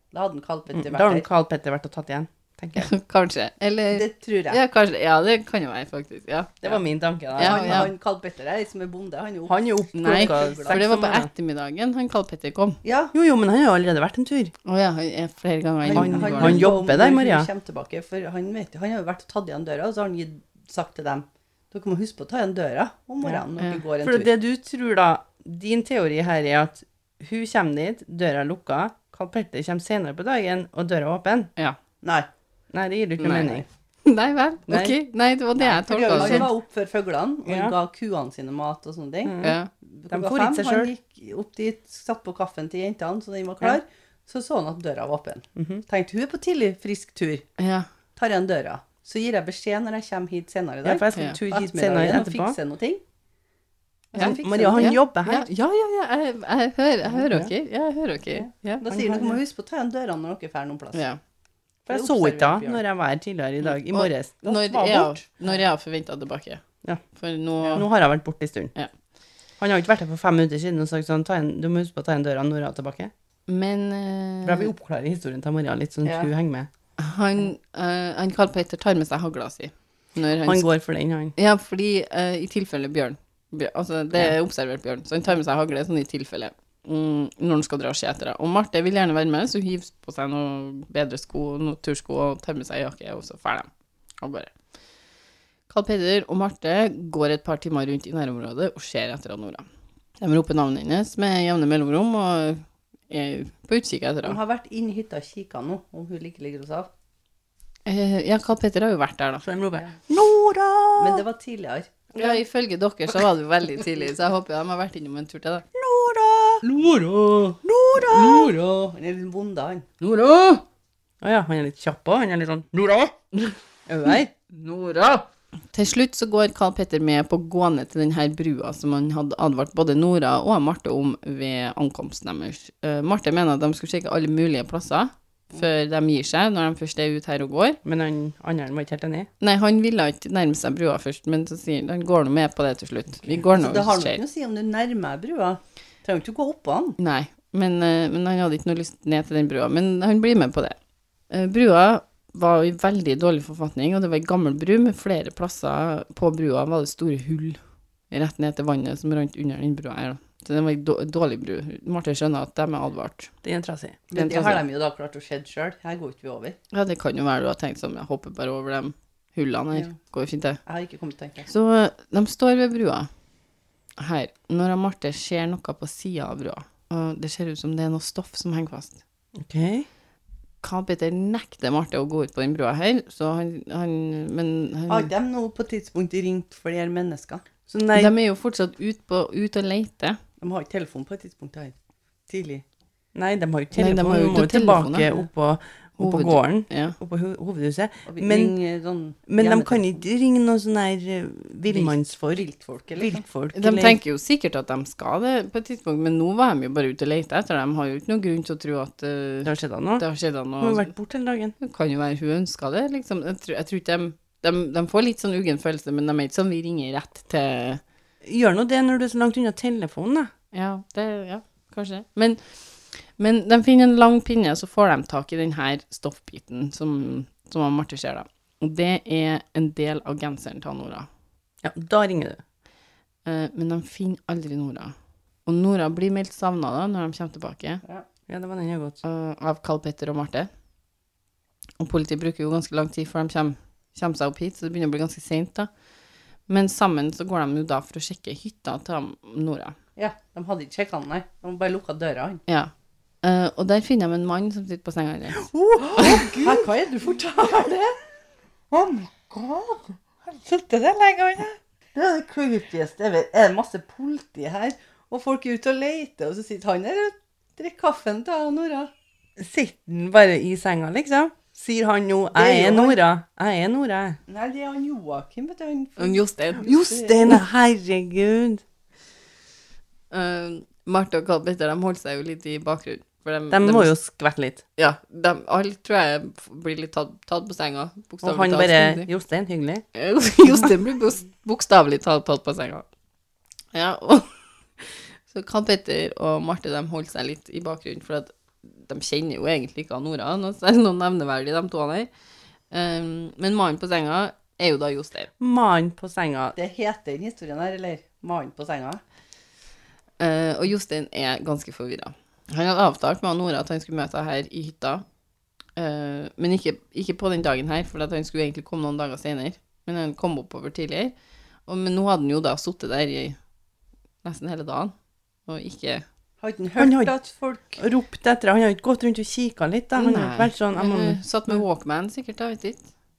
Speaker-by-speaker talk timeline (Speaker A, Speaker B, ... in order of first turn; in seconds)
Speaker A: 0.1-1.3, 3.9-4.6, 7.4-10.8, 12.8-13.1, 15.8-24.3, 32.0-32.3, 35.6-47.5, 48.1-53.0, 54.1-55.0, 58.3-61.0, 61.9-62.8, 76.0-76.3, 104.2-106.9, 111.0-111.9, 117.9-119.9, 143.5-147.0, 164.1-166.6, 170.7-171.5, 184.9-187.4, 190.4-191.7, 192.3-192.6, 198.1-199.9, 201.7-203.2, 250.0-252.4, 255.9-258.0, 258.7-268.9, 272.4-273.0, 274.3-277.4, 306.6-309.0, 326.4-327.8
Speaker B: 0.7-2.9, 6.6-7.9, 9.5-11.3, 13.1-14.5, 15.9-17.5, 24.0-31.5, 32.7-33.6, 34.7-35.0, 35.9-36.5, 37.5-37.8, 39.2-39.6, 40.1-40.9, 45.6-45.8, 50.8-52.6, 54.2-55.5, 57.2-57.5, 58.9-59.4, 61.9-65.2, 67.7-68.7, 69.6-73.1, 74.4-76.7, 80.4-81.3, 109.4-111.2, 112.1-112.4, 115.8-118.6, 121.2-123.1, 123.9-124.3, 137.8-139.3, 163.4-164.1, 179.4-179.9, 187.7-188.1, 193.1-198.5, 199.3-202.4, 203.0-204.0, 209.4-210.1, 210.6-211.6, 218.2-220.3, 231.6-232.4, 238.3-239.0, 255.4-256.7, 269.4-274.2, 276.6-278.6, 283.5-284.6, 288.2-289.8, 305.4-306.6, 326.8-327.1, 327.8-331.6
Speaker C: 2.8-6.7, 7.4-7.9, 9.9-12.8, 14.6-16.7, 33.2-36.5, 39.4-39.7, 47.6-47.9, 51.1-51.4, 54.1-58.8, 60.9-61.2, 63.6-66.6, 67.1-67.9, 73.5-74.7, 77.0-80.7, 81.4-93.7, 94.2-94.5, 95.7-99.6, 100.2-104.4, 107.9-109.5, 112.1-115.7, 120.0-120.6, 124.5-137.8, 139.4-144.2, 147.0-150.8, 151.3-157.6, 158.1-163.3, 164.1-164.6, 166.7-170.6, 171.5-173.1, 174.0-179.0, 180.6-185.1, 187.9-190.2, 193.8-195.1, 196.0-197.0, 203.5-210.9, 211.6-217.8, 220.5-231.1, 233.3-234.9, 235.5-237.8, 239.0-240.5, 241.8-245.7, 246.5-249.8, 253.2-256.3, 276.0-276.7, 280.1-283.9, 284.8-289.1, 289.9-292.9, 293.7-294.3, 294.8-302.1, 302.7-305.3, 310.2-315.1, 315.8-321.1, 321.7-323.4, 324.2-324.9, 325.5-326.1, 330.0-332.9